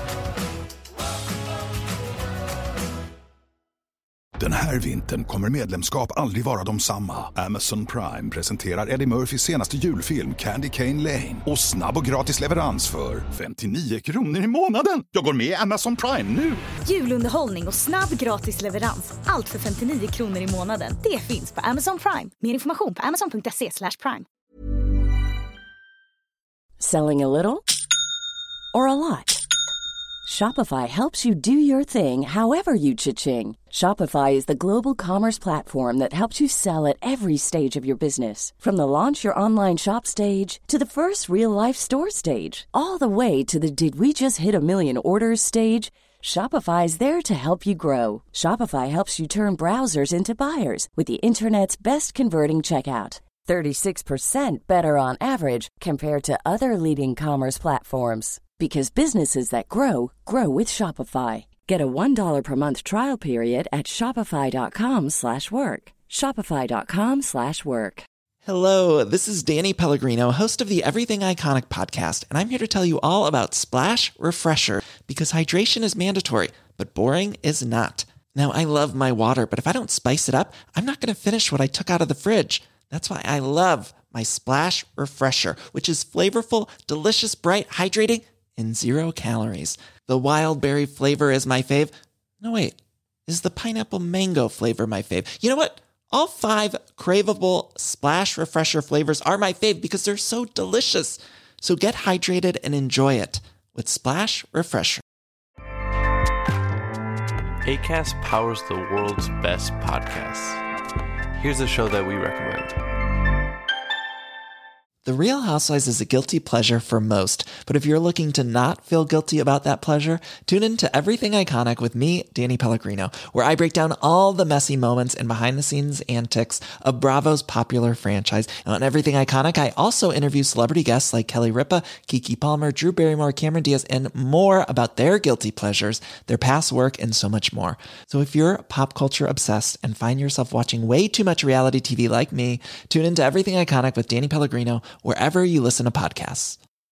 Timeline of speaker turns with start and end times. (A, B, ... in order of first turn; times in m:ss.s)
0:04.4-0:16.6 A
0:16.8-0:24.3 B
0:26.8-0:27.6 C
0:28.7-0:29.4 C
0:30.3-1:08.0 C
1:08.4-1:32.8 D
1:33.3-1:45.0 D
1:47.6-1:50.6 E
1:51.4-1:52.8 E
1:55.0-2:26.6 D